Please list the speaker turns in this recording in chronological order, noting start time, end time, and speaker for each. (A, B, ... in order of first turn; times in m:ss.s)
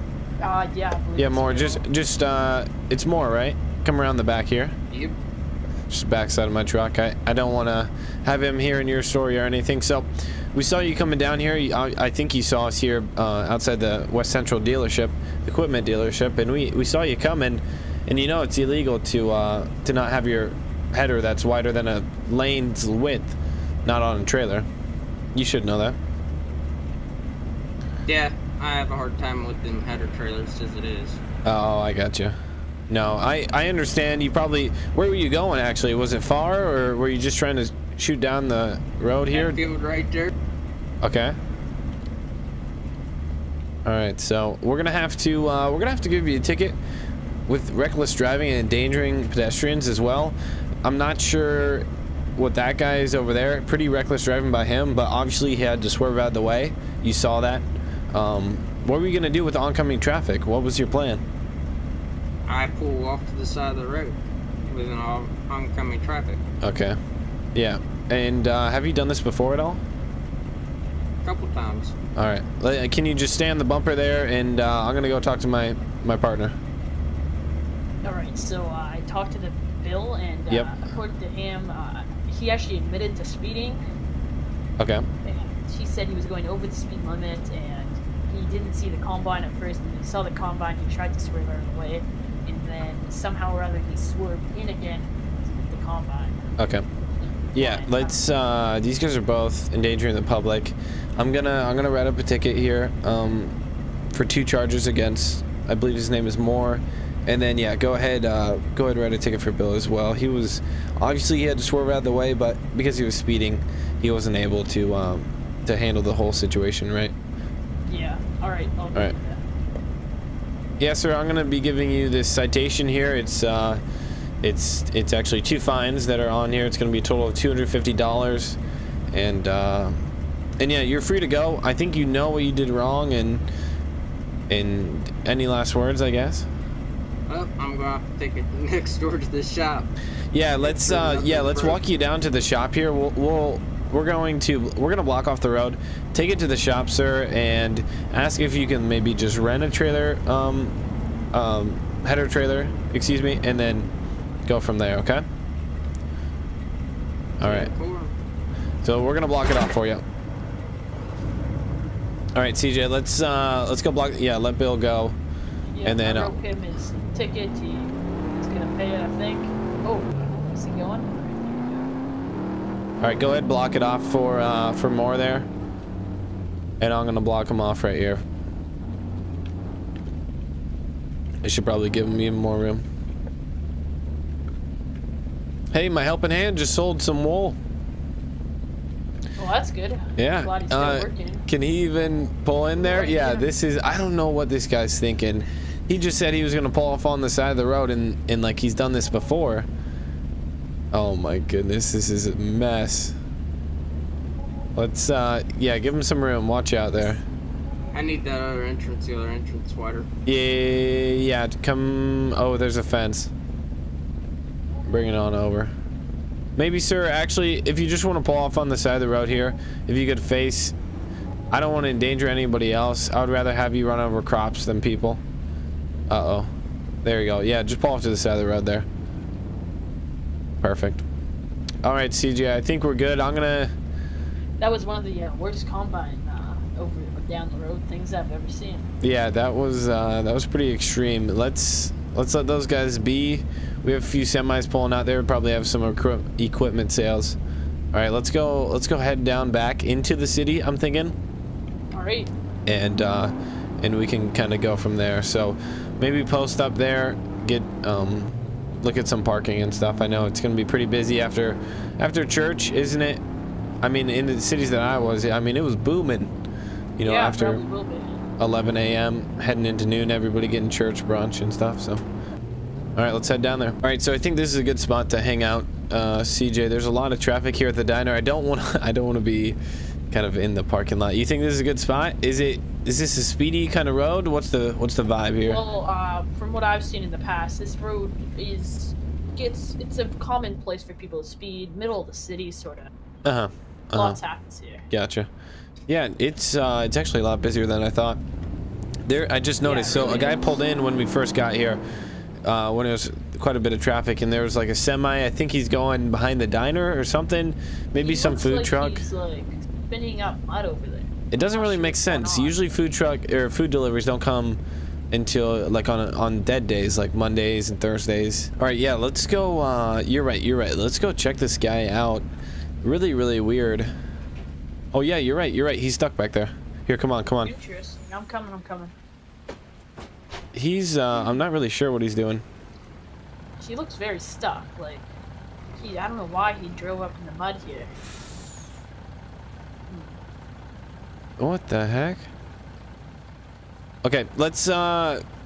0:00.4-0:01.9 A
0:01.2-0:04.8 B
0:04.9-0:05.2 C
0:05.9-0:24.7 B
0:25.3-0:26.0 B
0:28.1-0:31.2 C
0:31.4-0:32.4 B
0:32.9-0:39.6 B
0:39.3-0:40.3 C
0:41.0-0:41.4 B
0:43.8-0:46.8 B
0:47.5-1:01.2 B
1:02.5-1:06.4 C
1:06.6-1:07.0 B
1:07.5-1:09.8 B
1:11.2-1:12.0 C
1:12.2-1:16.6 B
1:18.0-1:23.8 A
1:24.8-1:25.1 B
1:25.2-1:36.4 A
1:36.6-1:36.9 B
1:37.5-1:38.2 A
1:37.5-1:43.6 B
1:44.1-1:57.1 B
1:57.9-1:59.4 A
2:00.8-2:03.8 B
2:04.4-2:08.6 B
2:09.1-2:10.0 B
2:10.6-2:13.4 B
2:14.5-2:16.5 B
2:17.3-2:19.9 C
2:20.3-2:30.7 B
2:20.6-2:21.8 C
2:31.3-2:33.9 B
2:34.5-2:35.2 B
2:37.4-2:37.7 B
2:37.4-2:38.1 C
2:38.8-2:40.0 B
2:42.4-2:45.2 B
2:45.7-2:51.9 A
2:45.8-2:46.4 B
2:53.0-2:55.5 B
2:56.8-2:58.2 B
3:01.4-3:02.8 B
3:05.7-3:07.6 B
3:09.4-3:11.5 A
3:10.2-3:19.7 B
3:12.8-3:13.5 A
3:20.9-3:23.2 B
3:24.8-3:27.2 B
3:27.9-3:30.1 C
3:30.3-3:33.3 B
3:34.9-3:35.7 B
3:36.6-3:40.8 B
3:41.5-3:45.2 B
3:46.1-3:46.5 B
3:47.0-3:48.9 B
3:50.6-3:51.0 B
3:51.8-3:53.7 B
3:54.6-3:58.9 A
3:59.0-4:07.4 B
4:07.9-4:11.2 B
4:11.9-4:12.3 A
4:12.7-4:23.2 B
4:23.8-4:26.3 B
4:27.0-4:27.6 B
4:27.0-4:28.2 A
4:28.4-4:32.0 B
4:33.0-4:39.6 B
4:40.1-4:45.6 B
4:45.4-4:52.9 A
4:53.2-4:54.2 B
4:54.0-4:54.8 A
4:54.9-4:55.3 B
4:55.9-4:58.2 B
4:59.1-5:01.8 B
4:59.6-5:00.6 A
5:02.4-5:09.1 B
5:08.0-5:12.8 A
5:11.3-5:14.6 B
5:15.1-5:22.3 B
5:22.8-5:23.9 B
5:24.9-5:27.5 B
5:27.4-5:28.9 A
5:30.5-5:32.4 B
5:31.1-5:31.4 A
5:33.6-5:35.1 A
5:35.8-5:37.9 A
5:39.9-5:40.2 A
5:41.4-5:42.3 B
5:44.0-5:45.2 B